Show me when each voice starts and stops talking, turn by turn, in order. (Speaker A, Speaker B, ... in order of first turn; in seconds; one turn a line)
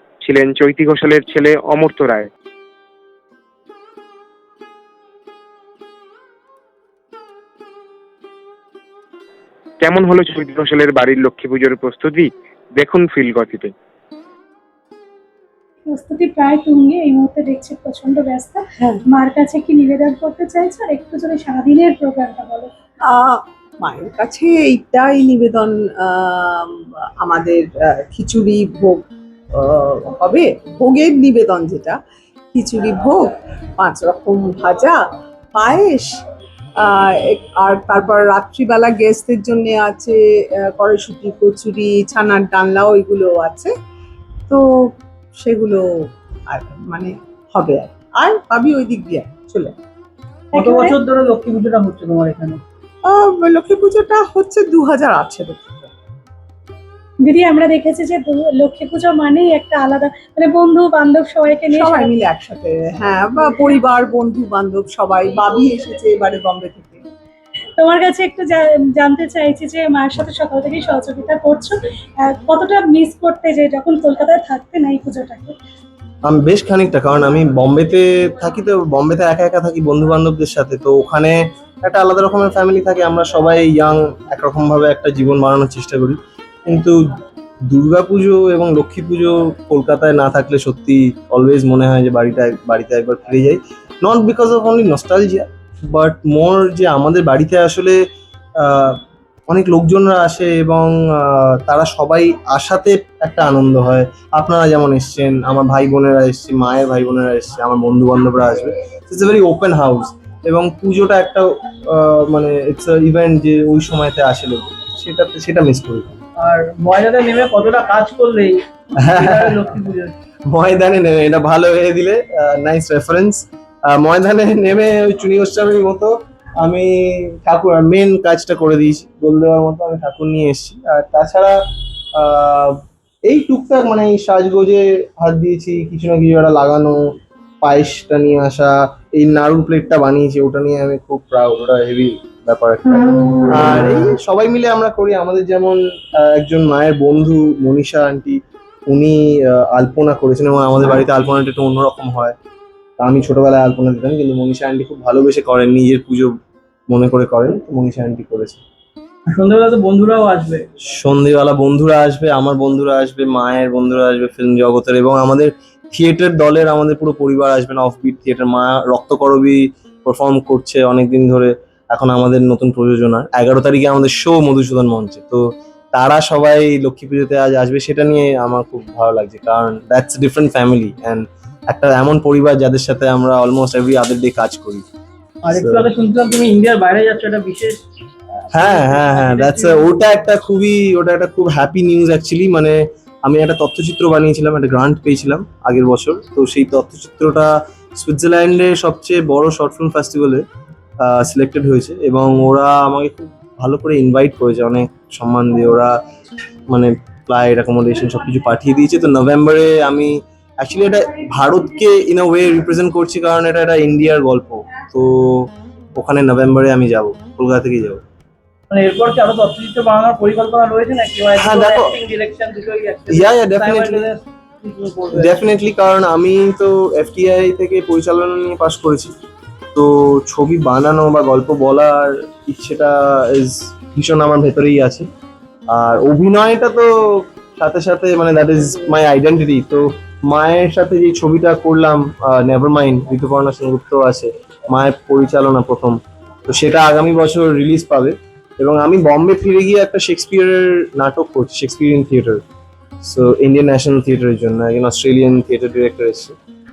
Speaker A: 0.2-2.3
Speaker A: 9.8-13.7
Speaker B: 15.8-22.7
Speaker C: 23.1-32.0
Speaker C: 32.5-35.0
Speaker C: 35.5-36.2
Speaker C: 36.8-43.7
Speaker C: 45.4-45.8
Speaker C: 46.5-49.7
Speaker B: 50.5-50.9
Speaker D: 50.5-52.6
Speaker C: 53.0-55.9
Speaker B: 57.2-62.1
Speaker C: 61.7-67.0
Speaker B: 67.8-75.5
Speaker E: 76.2-98.0
Speaker E: 98.6-116.2
Speaker D: 116.4-120.1
Speaker E: 119.0-119.6
Speaker E: 120.5-131.6
Speaker E: 132.1-137.0
Speaker E: 137.6-152.3
Speaker E: 153.0-156.3
Speaker E: 156.9-158.6
Speaker D: 159.3-160.7
Speaker E: 160.9-184.8
Speaker D: 185.4-187.8
Speaker E: 185.5-185.9
Speaker D: 188.5-189.9
Speaker E: 188.5-200.4
Speaker E: 201.0-205.9
Speaker E: 206.7-218.0
Speaker D: 218.7-225.4
Speaker E: 221.3-221.9
Speaker E: 223.1-224.0
Speaker E: 225.1-229.1
Speaker E: 229.7-235.1
Speaker E: 235.7-252.4
Speaker E: 253.0-256.4